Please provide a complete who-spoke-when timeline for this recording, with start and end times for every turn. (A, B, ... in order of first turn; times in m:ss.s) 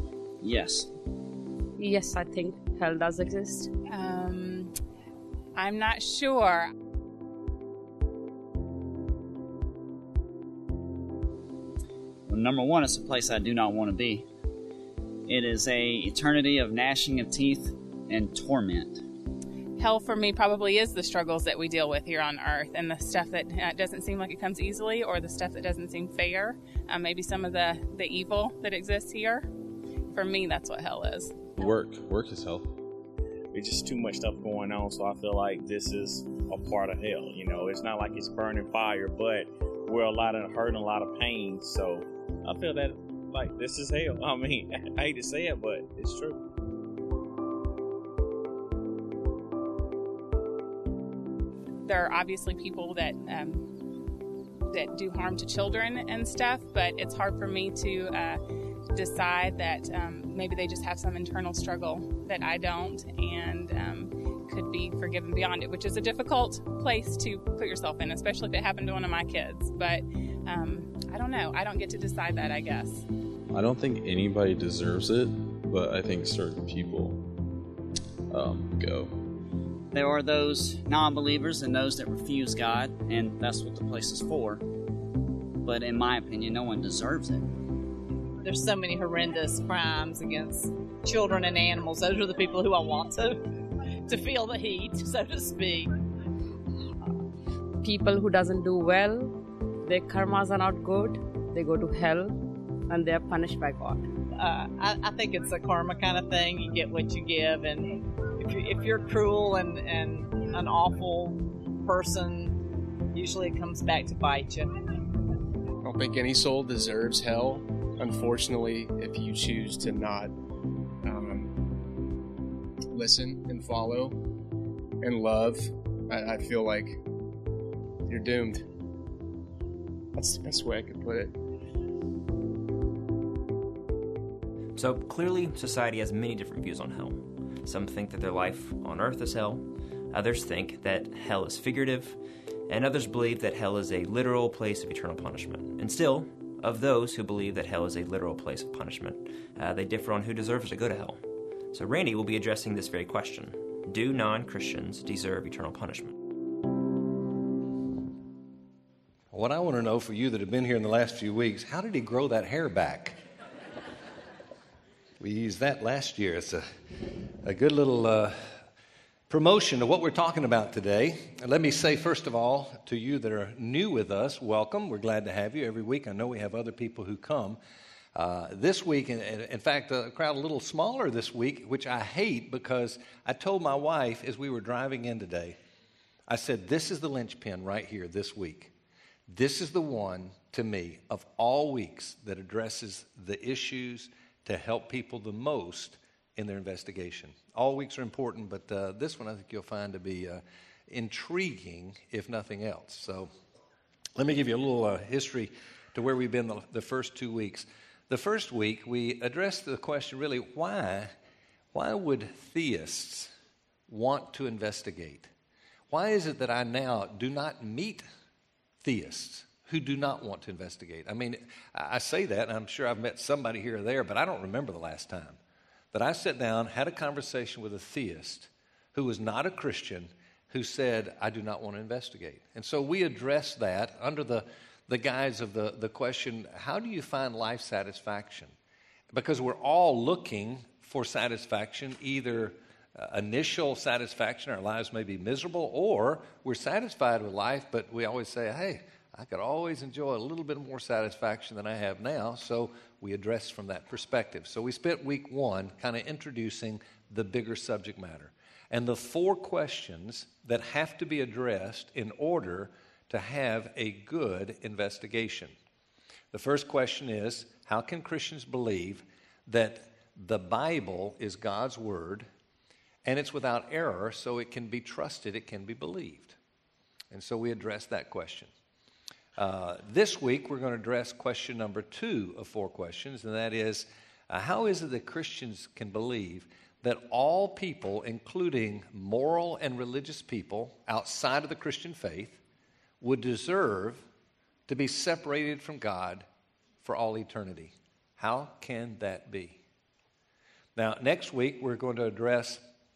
0:00.4-0:00.9 A
0:01.8-0:03.7 B
0:03.9-0:04.8 C
0:05.5-0:06.7 C
0:12.2-0:14.2 A
0:15.2-0:19.0 A
0:19.8-0:29.5 C
0:30.1-0:31.4 C
0:31.6-0:32.7 D
0:33.5-0:46.4 E
0:51.8-0:53.8 C
0:54.7-0:58.4 C
0:58.9-1:13.0 C
1:13.5-1:17.2 D
1:18.3-1:19.1 D
1:19.9-1:24.6 A
1:25.6-1:27.6 A
1:28.4-1:33.4 F
1:34.0-1:35.9 F
1:37.8-1:44.0 B
1:44.3-1:52.6 F
1:53.1-1:54.7 F
1:55.8-2:00.3 G
2:01.0-2:01.6 G
2:02.9-2:04.2 G
2:05.0-2:07.0 G
2:08.1-2:08.6 G
2:10.1-2:11.4 G
2:14.8-2:36.1 H
2:39.3-2:43.2 I
2:45.2-2:46.6 I
2:47.4-2:48.6 I
2:49.3-2:57.6 I
2:58.1-3:05.6 I
3:06.3-3:08.7 I
3:09.3-3:23.3 I
3:24.2-3:31.1 I
3:31.7-3:33.3 I
3:33.9-3:35.3 I
3:35.9-3:38.0 I
3:38.8-3:45.4 I
3:45.9-3:58.5 I
3:59.1-4:25.5 I
4:26.3-4:32.3 I
4:33.0-4:36.4 I
4:37.1-4:38.5 I
4:39.4-4:52.4 I
4:53.0-4:54.0 I
4:54.7-4:56.2 I
4:56.8-4:59.6 I
5:00.8-5:02.6 I